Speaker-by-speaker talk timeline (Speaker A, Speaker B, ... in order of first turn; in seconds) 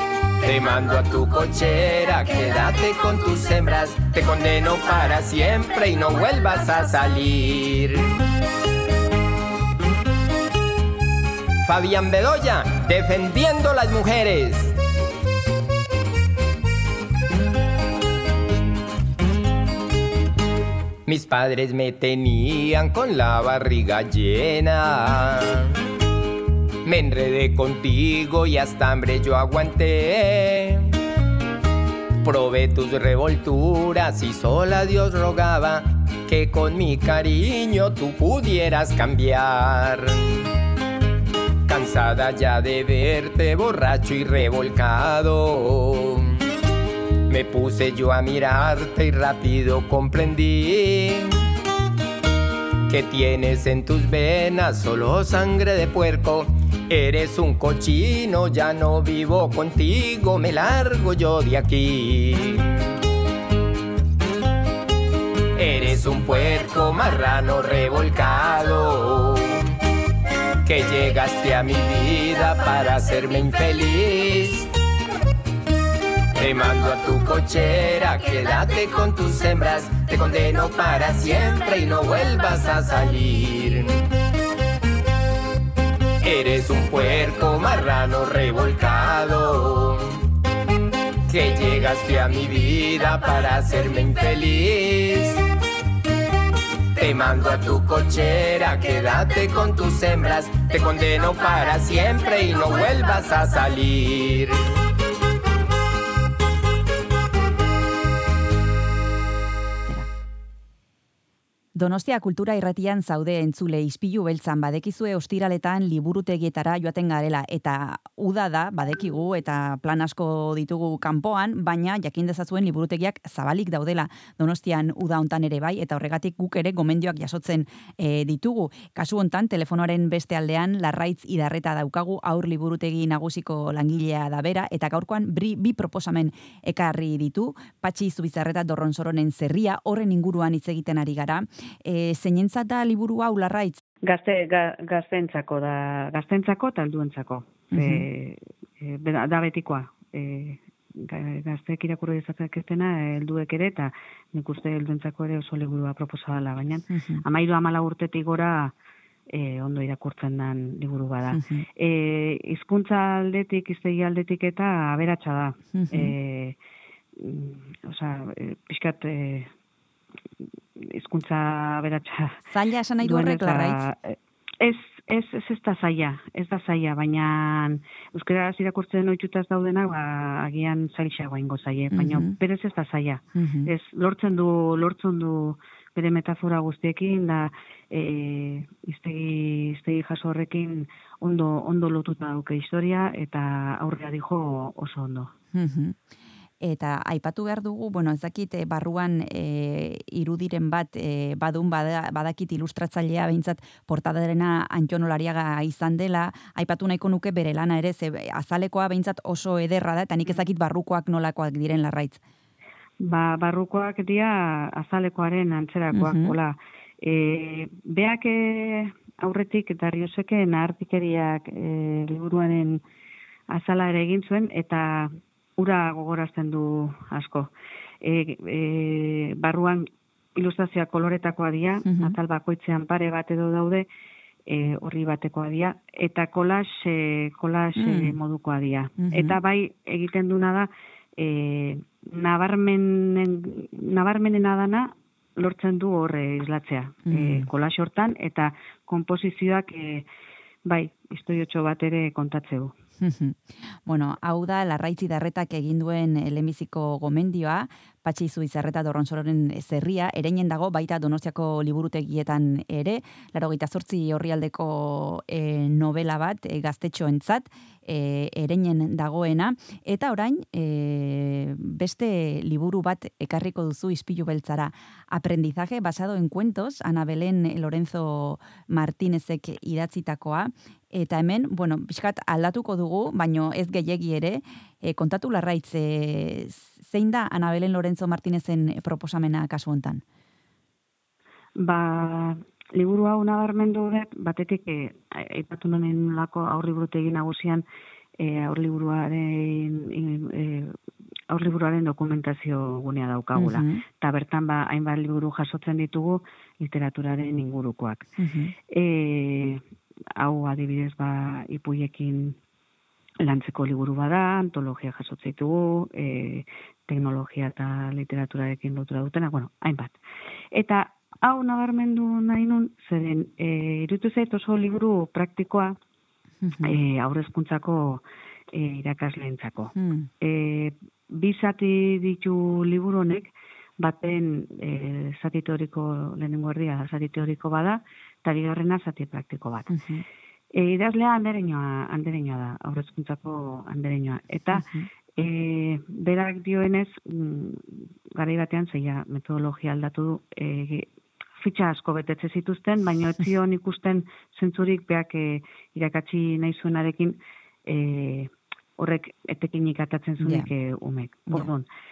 Speaker A: 0.4-8.1, 11.7-14.8, 21.1-25.7, 26.8-30.9, 32.2-40.4, 41.7-46.4, 47.3-51.4, 52.9-62.6, 65.5-69.6, 70.6-74.7, 76.3-84.0, 86.2-90.2, 91.3-95.4, 97.0-104.7
Speaker B: 111.7-143.8, 147.7-148.1, 156.9-157.2, 161.3-161.6, 165.7-166.1, 172.5-173.8, 181.9-182.3, 183.3-183.7, 195.5-196.0, 196.6-212.2, 215.9-216.3, 231.8-232.2, 237.8-238.1, 239.0-239.3, 247.1-247.5, 253.0-290.0, 303.3-303.8, 308.2-308.5, 326.4-326.8, 329.7-330.1, 339.7-340.0, 344.5-344.9, 360.2-360.5
Speaker C: 144.0-158.7, 159.3-166.6, 167.2-169.5, 170.8-172.4, 173.0-195.3, 213.0-222.8, 223.5-227.5, 228.0-233.9, 234.5-250.1, 250.7-252.7, 291.6-297.6, 298.2-300.7, 301.3-308.1, 308.7-309.6, 310.2-312.4, 313.2-320.0, 320.5-325.8, 326.6-339.7, 340.5-350.9, 351.4-361.7